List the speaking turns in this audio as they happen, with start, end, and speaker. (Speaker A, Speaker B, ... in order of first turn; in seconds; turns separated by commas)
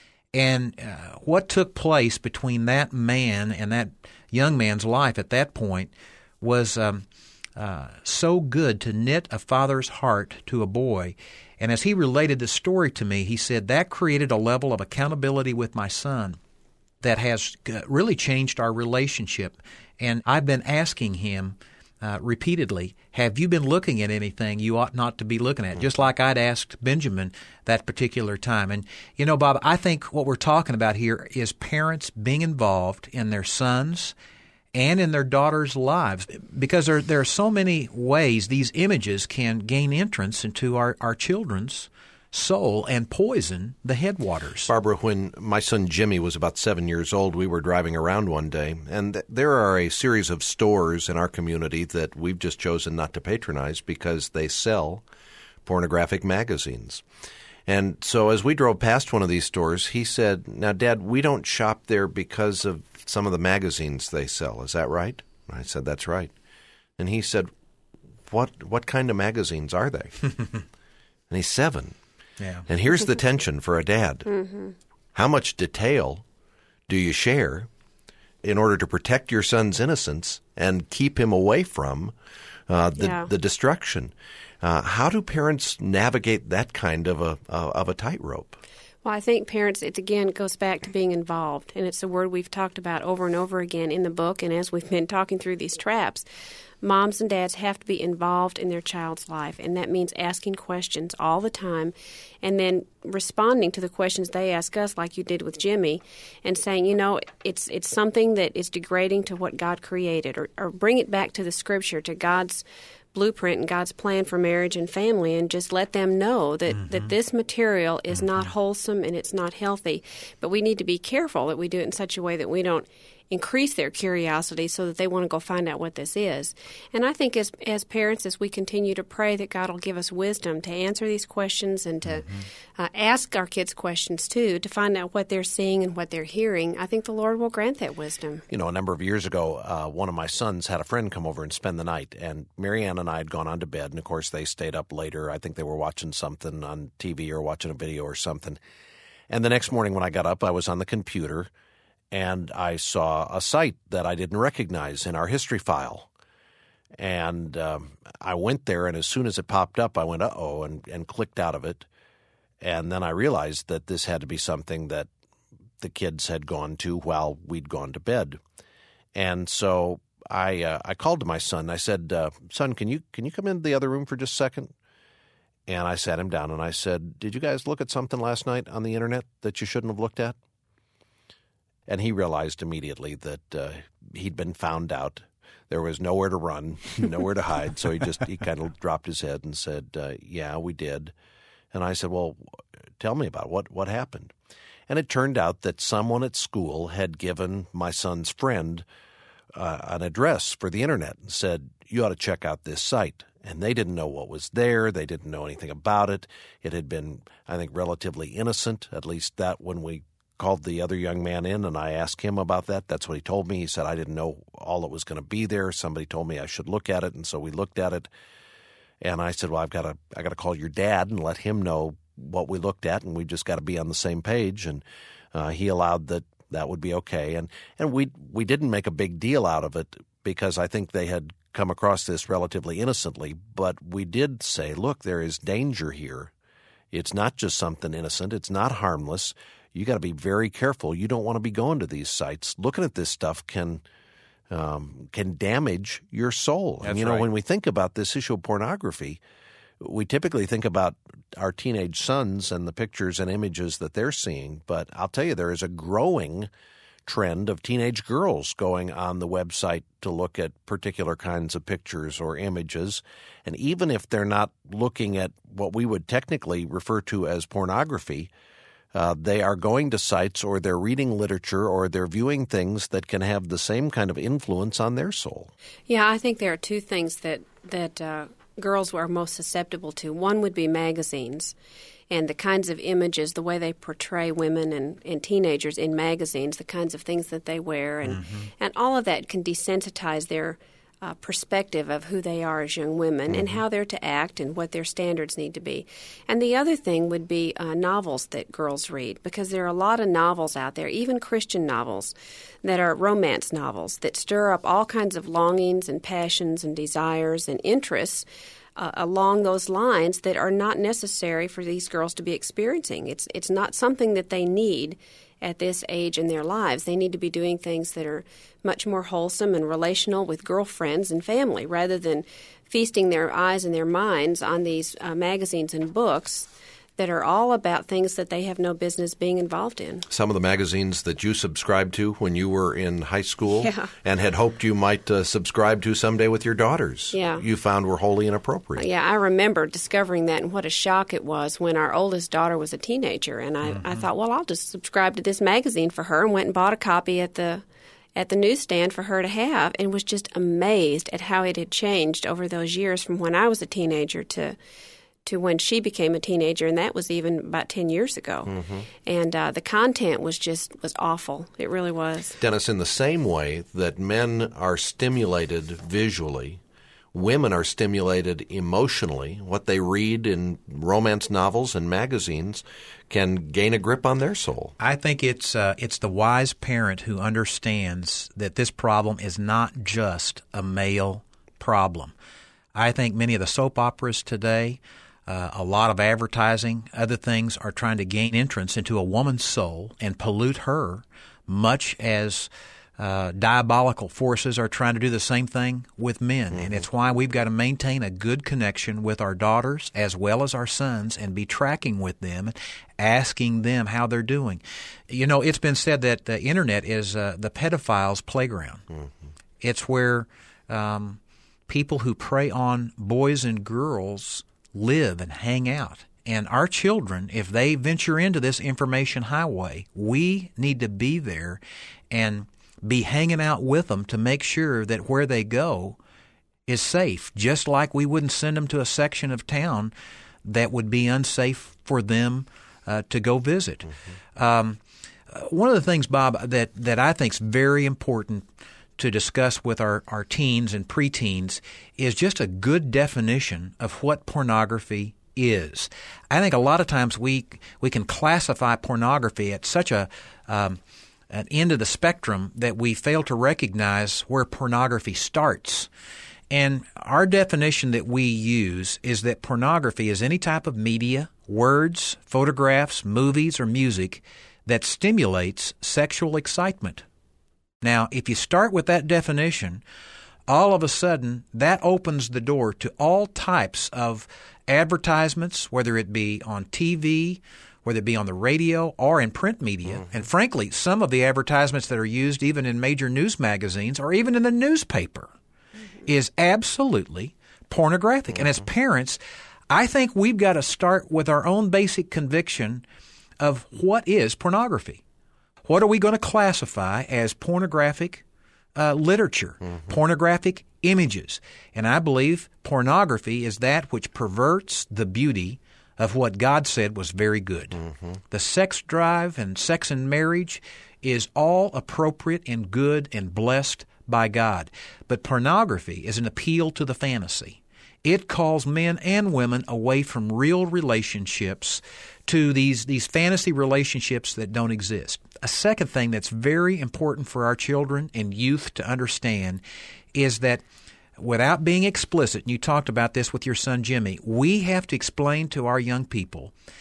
Speaker A: 0.3-7.0, Speaker A: 7.6-16.4, Speaker A: 17.0-34.1, Speaker A: 34.7-44.7, Speaker B: 44.7-55.0, Speaker B: 55.6-57.0, Speaker B: 57.7-66.3, Speaker B: 67.0-67.5, Speaker B: 68.3-70.3, Speaker B: 71.3-72.0, Speaker A: 72.4-72.7, Speaker B: 72.7-74.3, Speaker C: 74.3-74.8, Speaker B: 75.2-76.2, Speaker B: 76.9-77.7, Speaker B: 78.4-82.1, Speaker B: 82.7-88.6, Speaker C: 83.0-83.3, Speaker C: 89.0-96.3, Speaker C: 96.8-138.4, Speaker B: 138.5-148.6, Speaker B: 149.3-151.5, Speaker B: 152.1-156.1, Speaker B: 157.0-161.9, Speaker B: 162.6-165.1, Speaker B: 165.8-168.4, Speaker B: 169.2-174.7, Speaker B: 175.7-180.4, Speaker B: 181.9-191.1, Speaker B: 191.7-192.4, Speaker B: 193.0-194.3, Speaker B: 194.9-198.8, Speaker B: 199.6-218.1, Speaker B: 219.0-224.8, Speaker B: 225.3-236.3, Speaker B: 236.9-243.8, Speaker B: 244.5-249.2, Speaker A: 246.8-247.3, Speaker B: 249.8-256.5, Speaker B: 257.1-268.3, Speaker B: 268.9-275.5, Speaker C: 275.9-281.6, Speaker C: 282.1-330.1, Speaker A: 288.1-288.5, Speaker B: 293.3-293.6, Speaker B: 330.1-338.9, Speaker C: 333.6-333.9, Speaker C: 337.1-337.4, Speaker C: 338.8-347.6, Speaker C: 348.2-354.6, Speaker C: 355.3-358.5, Speaker B: 358.5-358.9, Speaker C: 359.1-362.4, Speaker B: 362.4-366.6, Speaker B: 367.1-374.8, Speaker A: 374.8-382.1, Speaker A: 382.7-408.9, Speaker B: 396.5-396.9, Speaker A: 409.6-426.0, Speaker A: 426.7-429.9, Speaker A: 430.4-438.5, Speaker A: 439.0-455.9, Speaker A: 456.5-467.0, Speaker A: 467.8-469.8, Speaker A: 470.5-485.3, Speaker A: 486.1-492.8, Speaker A: 493.4-495.0, Speaker A: 495.6-498.2, Speaker A: 498.8-529.6, Speaker A: 530.1-530.6, Speaker A: 531.2-536.5